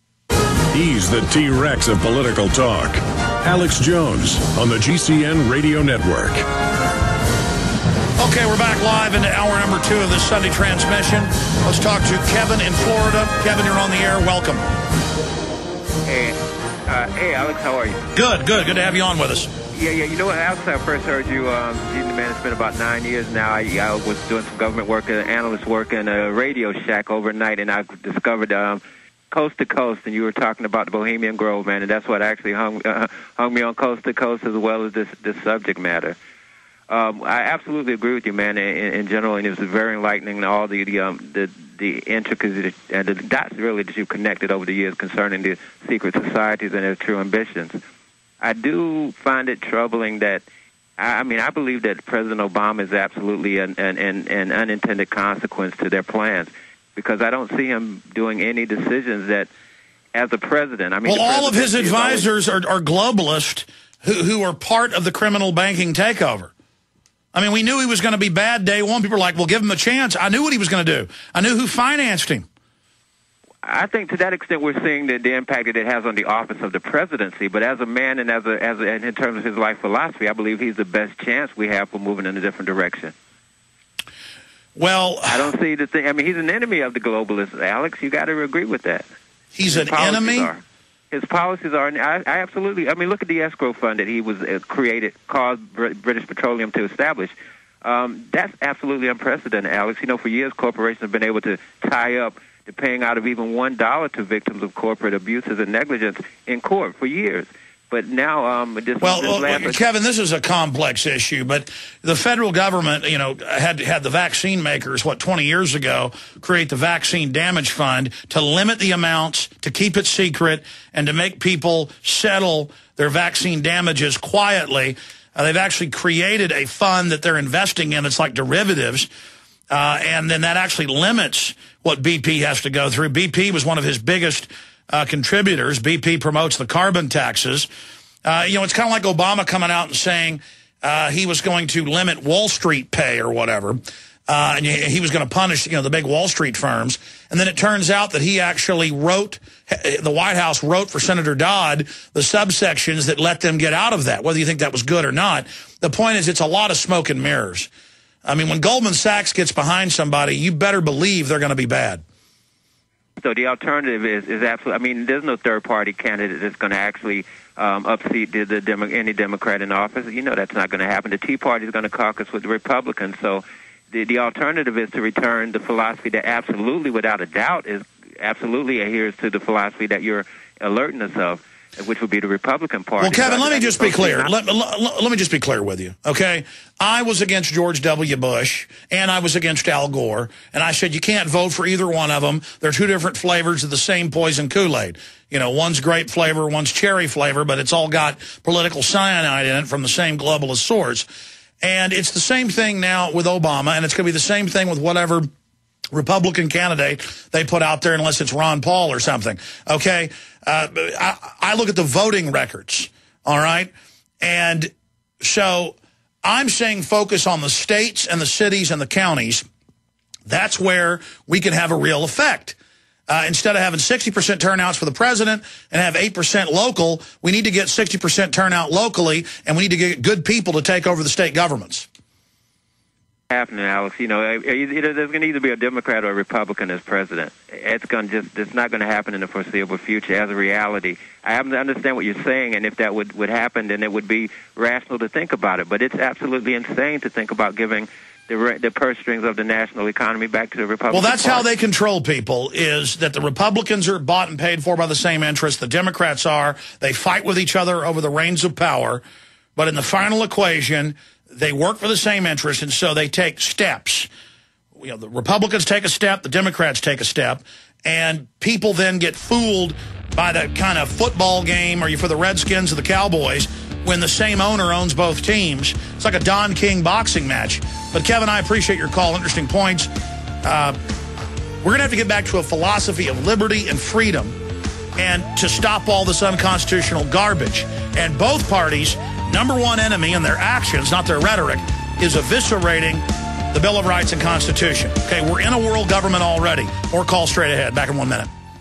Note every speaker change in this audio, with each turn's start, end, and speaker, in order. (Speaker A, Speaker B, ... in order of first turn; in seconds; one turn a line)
Speaker A: 0.7-6.4
Speaker B: 8.2-14.6
Speaker C: 16.0-18.0
Speaker B: 18.1-19.5
Speaker C: 19.7-36.2
Speaker C: 36.9-47.8
Speaker C: 48.4-50.4
Speaker C: 51.0-59.5
Speaker C: 60.1-62.3
Speaker B: 61.0-66.5
Speaker B: 67.3-72.5
Speaker C: 73.6-83.1
Speaker B: 84.8-85.5
Speaker C: 85.3-89.0
Speaker B: 89.5-90.5
Speaker C: 89.7-109.8
Speaker B: 109.0-129.1
Speaker B: 129.7-137.7
Speaker B: 138.2-157.7
Speaker B: 158.2-162.0
Speaker C: 163.2-184.3
Speaker B: 183.0-201.1
Speaker B: 201.6-205.3
Speaker B: 205.9-219.4
Speaker B: 220.3-222.6
Speaker B: 223.1-231.9
Speaker C: 233.3-251.5
Speaker B: 250.9-259.0
Speaker B: 259.6-264.1
Speaker B: 264.8-279.9
Speaker B: 280.4-280.8
Speaker B: 281.6-284.4
Speaker B: 284.9-298.3